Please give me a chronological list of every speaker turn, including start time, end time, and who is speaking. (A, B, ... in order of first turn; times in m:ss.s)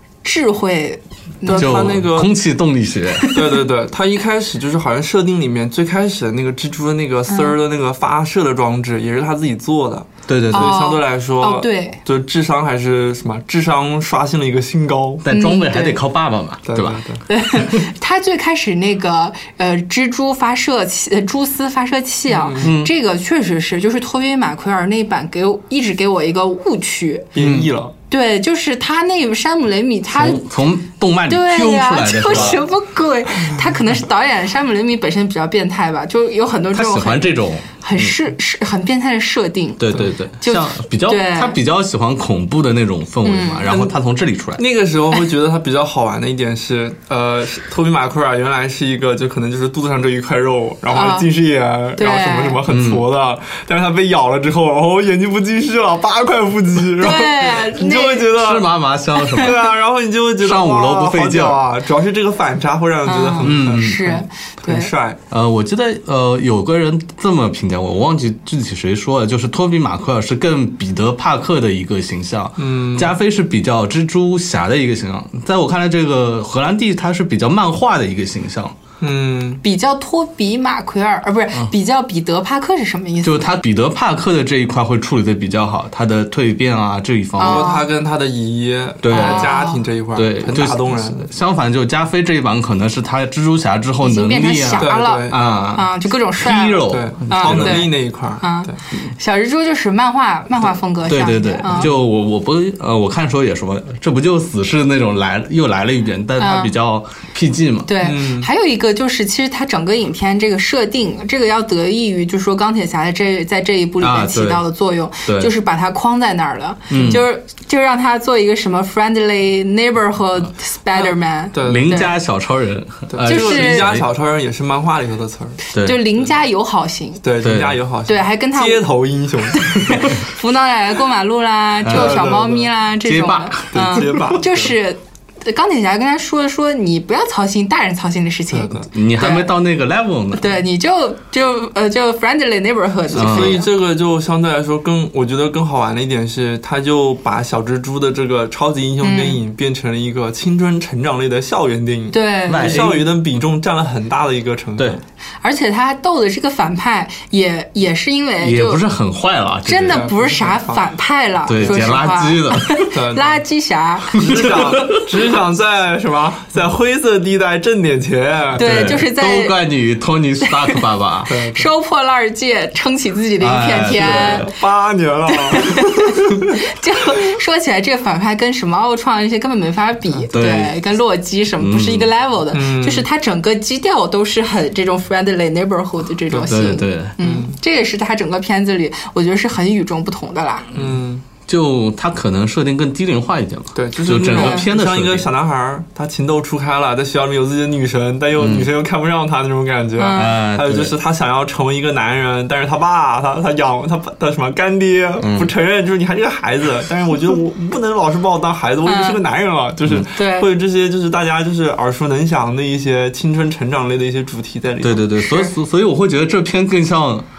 0:00.2-0:02.0 A
0:01.4-0:02.4 B
0:01.5-0:03.3 C
0:03.2-0:03.6 A
0:03.3-0:15.2 B
0:07.3-0:07.6 A
0:10.3-0:10.8 C
0:10.5-0:12.0 A
0:15.2-0:17.0 C
0:15.3-0:16.0 A
0:16.6-0:17.2 B
0:17.3-0:27.3 A
0:22.3-0:22.7 B
0:22.6-0:22.9 C
0:27.4-0:27.9 B
0:27.4-0:27.7 C
0:28.1-0:30.4 A
0:30.1-0:32.6 C
0:31.3-0:41.6 A
0:36.7-0:38.1 C
0:39.8-0:44.6 C
0:43.2-0:43.8 A
0:43.7-0:44.0 B
0:44.6-0:58.7 B
0:50.9-0:51.3 A
0:52.0-0:52.6 A
0:52.7-0:53.0 C
0:57.0-0:58.4 A
0:58.3-0:59.7 C
0:59.2-0:59.5 A
0:59.3-1:05.2 B
1:00.4-1:01.6 C
1:03.1-1:04.9 A
1:03.4-1:04.0 C
1:05.3-1:18.8 C
1:12.6-1:13.1 B
1:19.0-1:19.6 B
1:19.6-1:23.5 A
1:23.2-1:27.7 C
1:27.4-1:27.9 A
1:27.4-1:31.3 B
1:29.0-1:29.6 C
1:29.1-1:29.8 A
1:30.1-1:37.9 C
1:34.0-1:41.9 A
1:34.8-1:35.4 B
1:36.9-1:38.8 B
1:41.1-1:47.9 C
1:41.6-1:41.9 B
1:46.4-1:46.7 A
1:47.9-2:02.1 A
1:48.0-1:48.5 B
1:54.0-1:54.6 C
1:55.2-1:55.5 C
1:56.9-1:57.2 C
2:00.9-2:01.9 B
2:01.6-2:04.0 C
2:03.1-2:05.6 B
2:03.2-2:04.0 A
2:05.7-2:07.2 A
2:05.7-2:06.0 C
2:07.2-2:10.1 B
2:07.4-2:07.8 C
2:08.1-2:08.9 A
2:09.5-2:19.5 A
2:11.8-2:12.2 C
2:11.9-2:12.7 B
2:13.0-2:14.2 C
2:13.7-2:14.7 B
2:18.5-2:18.9 B
2:18.9-2:20.5 C
2:20.4-2:23.7 A
2:23.1-2:35.0 B
2:23.1-2:23.6 C
2:29.0-2:29.4 A
2:32.1-2:32.9 A
2:32.5-2:33.1 C
2:35.4-2:38.8 A
2:38.4-2:40.1 C
2:39.6-2:44.6 A
2:39.9-2:40.9 B
2:41.5-2:42.8 C
2:41.6-2:41.9 B
2:42.9-2:43.4 B
2:44.1-2:49.0 B
2:44.1-2:45.0 C
2:48.5-2:51.3 C
2:48.6-2:49.6 A
2:50.4-2:54.5 A
2:51.3-2:51.7 B
2:53.4-2:54.5 C
2:53.9-2:56.5 B
2:55.3-3:10.7 A
3:00.3-3:00.8 C
3:01.6-3:02.1 C
3:02.5-3:03.1 B
3:06.5-3:07.1 C
3:07.2-3:07.5 B
3:10.8-3:11.2 B
3:11.5-3:15.3 C
3:13.8-3:35.0 B
3:14.3-3:14.6 A
3:18.4-3:18.7 C
3:20.0-3:20.4 A
3:20.2-3:20.9 C
3:25.2-3:25.5 C
3:28.8-3:29.2 A
3:30.1-3:30.5 A
3:34.8-3:37.2 C
3:35.2-3:35.5 A